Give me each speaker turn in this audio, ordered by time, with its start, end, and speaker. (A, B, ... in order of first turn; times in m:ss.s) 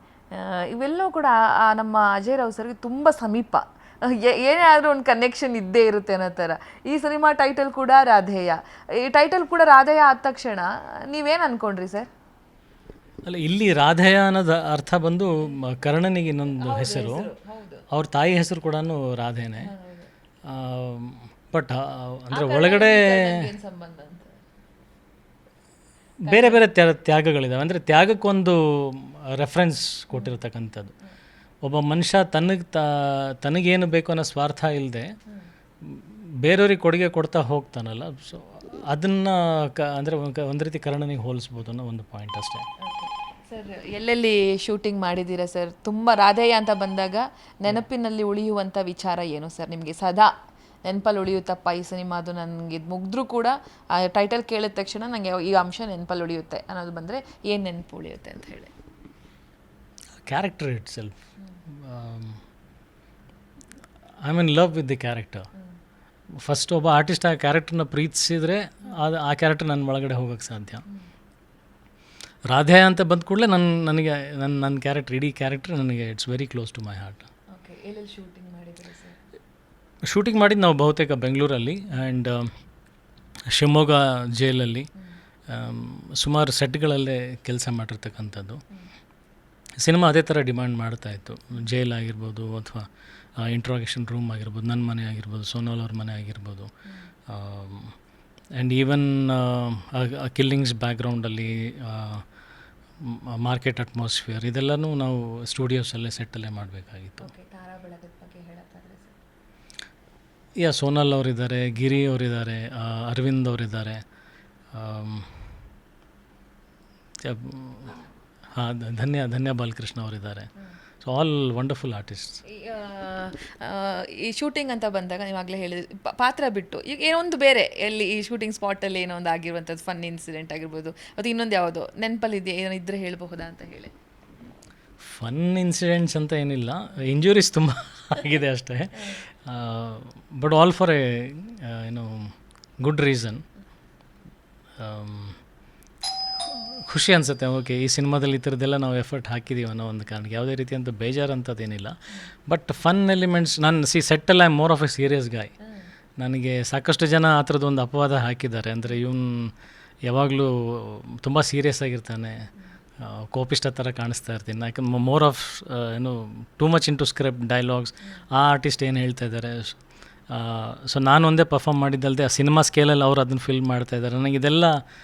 0:00.3-0:12.1 A
0:13.2-0:17.2 B
0:16.5-0:17.8 A
0:17.9-0:19.7 B
0:19.6-0:20.1 A
0:20.5-0:23.4 B
0:22.3-0:24.3 A
0:26.2-0:30.9 B
0:26.2-0:26.6 A
0:30.1-0:30.4 A
0:31.6-0:35.1 B
0:35.8-0:42.6 B
0:42.8-0:50.3 A
0:50.8-0:58.7 A
1:00.2-1:01.2 B
1:01.7-1:02.4 B
1:04.2-1:05.5 B
1:06.4-1:10.8 B
1:12.5-1:17.3 B
1:17.5-1:19.2 A
1:20.1-1:22.5 B
1:23.5-1:24.9 B
1:25.5-1:28.6 B
1:29.8-1:36.7 B
1:37.3-1:37.9 B
1:38.6-1:42.2 B
1:43.0-1:47.3 B
1:47.2-1:49.2 A
1:50.6-1:54.0 B
1:54.7-1:55.3 B
1:57.2-2:00.5 B
2:01.0-2:02.4 B
2:02.5-2:13.9 A
2:15.0-2:23.4 B
2:19.0-2:19.2 A
2:24.8-2:25.4 B
2:26.4-2:31.9 B
2:32.5-2:35.5 B
2:35.6-2:35.9 A
2:36.2-2:39.5 B
2:40.0-2:42.5 B
2:43.0-2:54.8 B